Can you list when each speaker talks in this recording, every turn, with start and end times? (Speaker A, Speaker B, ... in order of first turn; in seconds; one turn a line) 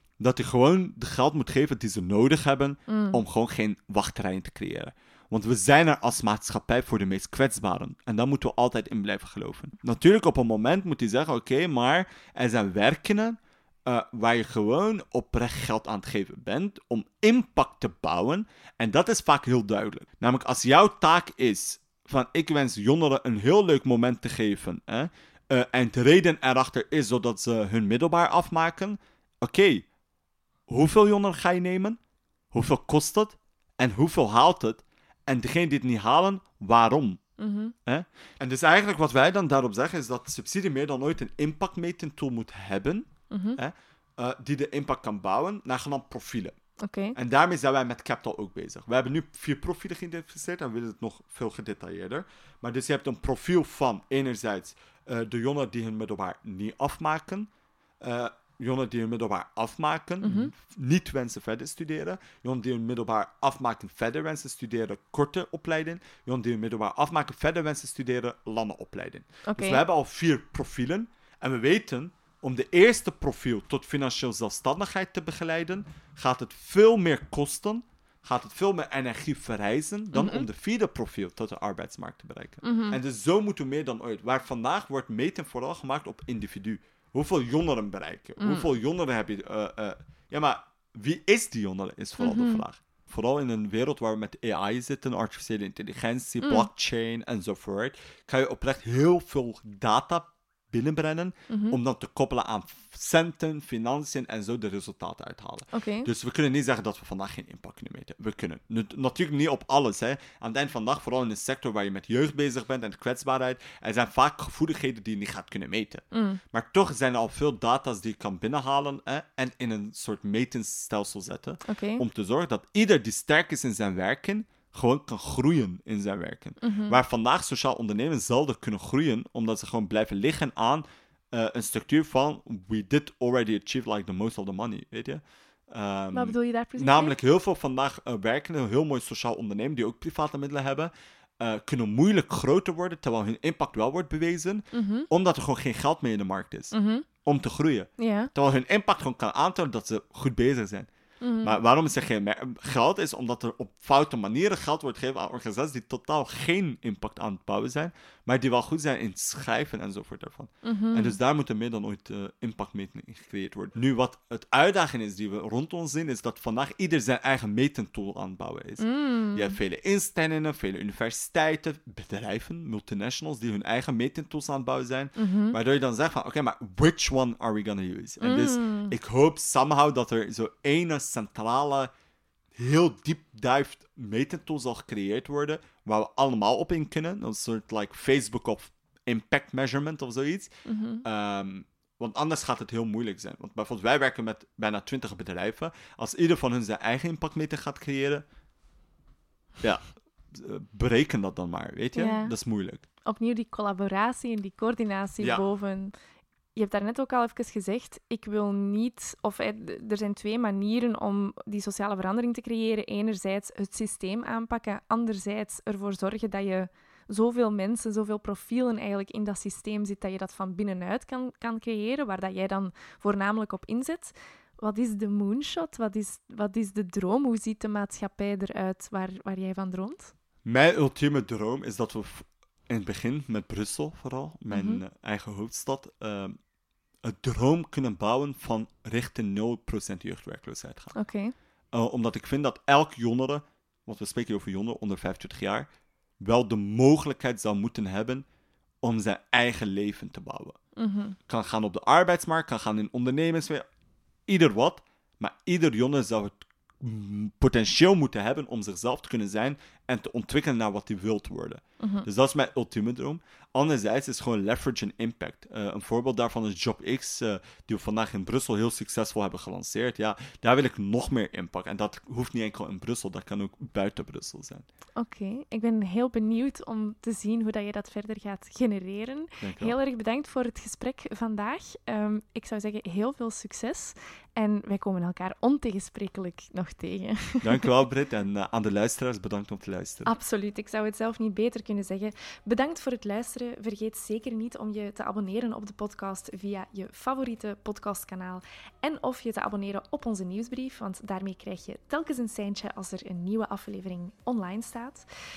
Speaker A: 0.2-29.9
Speaker B: 2.9-3.2
Speaker A: 30.7-32.0
Speaker A: 32.5-37.2
Speaker B: 37.4-37.8
Speaker A: 37.9-46.6
Speaker B: 43.3-43.6
Speaker B: 46.8-47.2
Speaker A: 47.1-150.9
Speaker B: 60.2-60.5
Speaker B: 69.5-69.8
Speaker B: 80.1-80.5
Speaker B: 82.6-83.0
Speaker B: 88.4-88.7
Speaker B: 92.2-92.6
Speaker B: 96.4-96.7
Speaker B: 101.5-101.8
Speaker B: 105.7-106.1
Speaker B: 116.1-116.4
Speaker B: 121.7-122.0
Speaker B: 126.6-127.0
Speaker B: 136.1-137.2
Speaker B: 144.7-145.1
Speaker B: 146.7-147.1
Speaker B: 148.0-148.3
Speaker B: 151.2-151.6
Speaker A: 151.4-181.9
Speaker B: 160.6-161.2
Speaker B: 168.8-169.6
Speaker B: 175.2-175.6
Speaker B: 178.2-178.9
Speaker A: 182.6-190.5
Speaker B: 190.7-191.1
Speaker A: 191.0-198.2
Speaker A: 199.6-202.8
Speaker B: 202.0-202.3
Speaker B: 203.1-205.9
Speaker B: 206.6-230.1
Speaker A: 230.4-236.4
Speaker B: 234.5-234.8
Speaker A: 237.0-240.9
Speaker B: 240.9-241.3
Speaker A: 241.7-245.7
Speaker A: 246.2-248.2
Speaker A: 248.8-250.6
Speaker B: 250.8-251.2
Speaker A: 251.3-253.7
Speaker A: 254.3-274.7
Speaker B: 261.8-262.1
Speaker B: 275.0-287.7
Speaker A: 279.4-279.8
Speaker A: 287.4-290.1
Speaker B: 290.1-305.1